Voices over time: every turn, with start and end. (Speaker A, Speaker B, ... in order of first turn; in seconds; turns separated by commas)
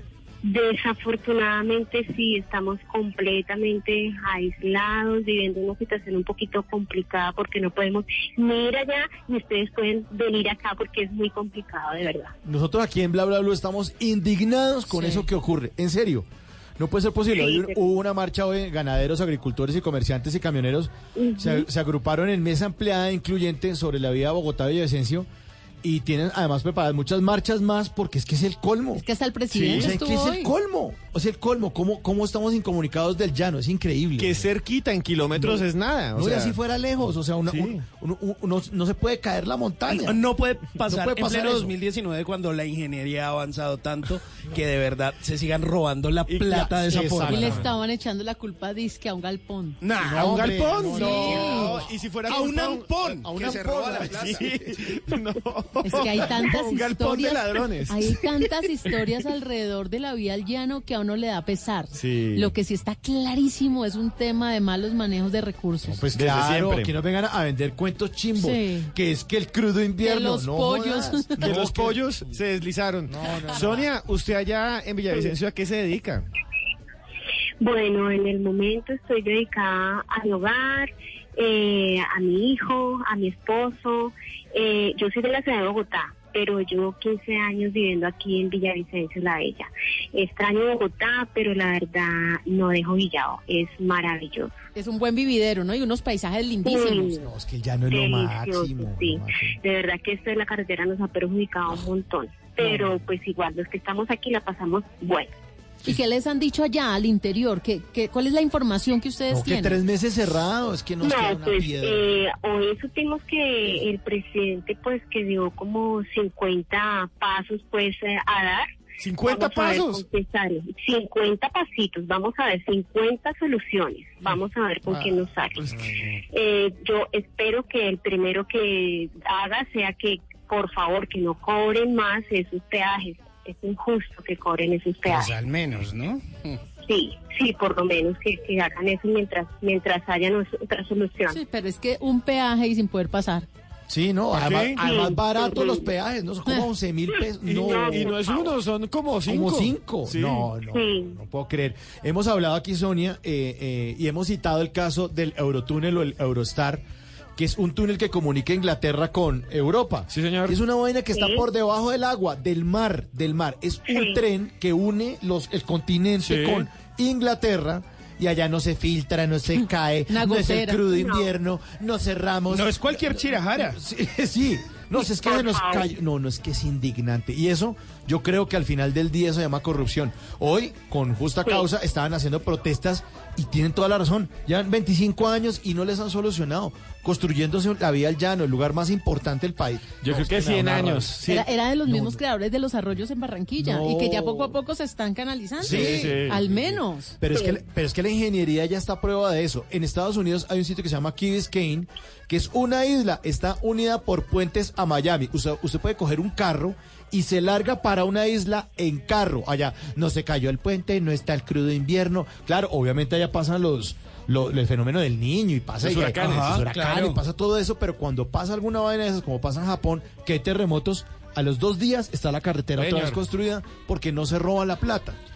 Speaker A: 0.4-12.3, Speaker B: 12.4-16.3, Speaker C: 14.9-15.2, Speaker B: 16.8-25.3, Speaker A: 17.3-17.8, Speaker A: 21.1-21.7, Speaker B: 25.8-29.0, Speaker C: 29.0-30.5, Speaker D: 29.5-29.9, Speaker B: 29.7-34.5, Speaker D: 34.2-36.6, Speaker B: 36.1-40.2, Speaker D: 37.5-37.8, Speaker E: 39.9-47.6, Speaker B: 40.9-41.7, Speaker D: 46.3-46.7, Speaker B: 46.5-47.7, Speaker C: 47.2-49.8, Speaker E: 49.8-54.5, Speaker B: 50.0-51.8, Speaker D: 50.2-52.9, Speaker C: 50.9-51.7, Speaker B: 53.0-54.5, Speaker D: 54.1-58.0, Speaker C: 55.8-66.0, Speaker D: 61.9-62.5, Speaker B: 65.9-72.0, Speaker D: 66.1-66.9, Speaker C: 68.4-68.9, Speaker C: 70.0-71.5, Speaker D: 71.4-76.3, Speaker B: 73.1-73.9, Speaker A: 77.6-94.5, Speaker C: 94.7-97.2, Speaker A: 96.6-97.2, Speaker B: 97.2-99.5, Speaker A: 97.9-105.3, Speaker B: 102.6-103.0, Speaker C: 105.8-109.8, Speaker B: 109.3-112.0, Speaker A: 111.0-118.7, Speaker D: 119.0-120.0, Speaker A: 119.2-125.7, Speaker D: 124.9-126.0, Speaker A: 126.3-135.3, Speaker E: 135.1-136.6, Speaker A: 136.8-141.4, Speaker C: 141.3-143.5, Speaker B: 143.9-148.3, Speaker D: 144.3-144.8, Speaker A: 144.8-145.9, Speaker A: 147.2-148.5, Speaker D: 147.4-150.5, Speaker B: 149.2-156.8, Speaker A: 150.7-151.1, Speaker B: 157.3-191.2, Speaker D: 160.1-160.6, Speaker A: 161.1-161.4, Speaker A: 163.9-164.2, Speaker D: 166.2-166.7, Speaker C: 170.1-170.8, Speaker A: 170.8-171.3, Speaker E: 172.5-173.8, Speaker A: 174.9-175.9, Speaker D: 190.0-191.5, Speaker C: 191.3-197.2, Speaker B: 191.9-192.2, Speaker B: 193.6-194.6, Speaker B: 195.6-225.2, Speaker D: 195.6-196.4, Speaker A: 197.3-197.6, Speaker D: 215.8-216.6, Speaker E: 216.2-217.2, Speaker D: 222.8-223.2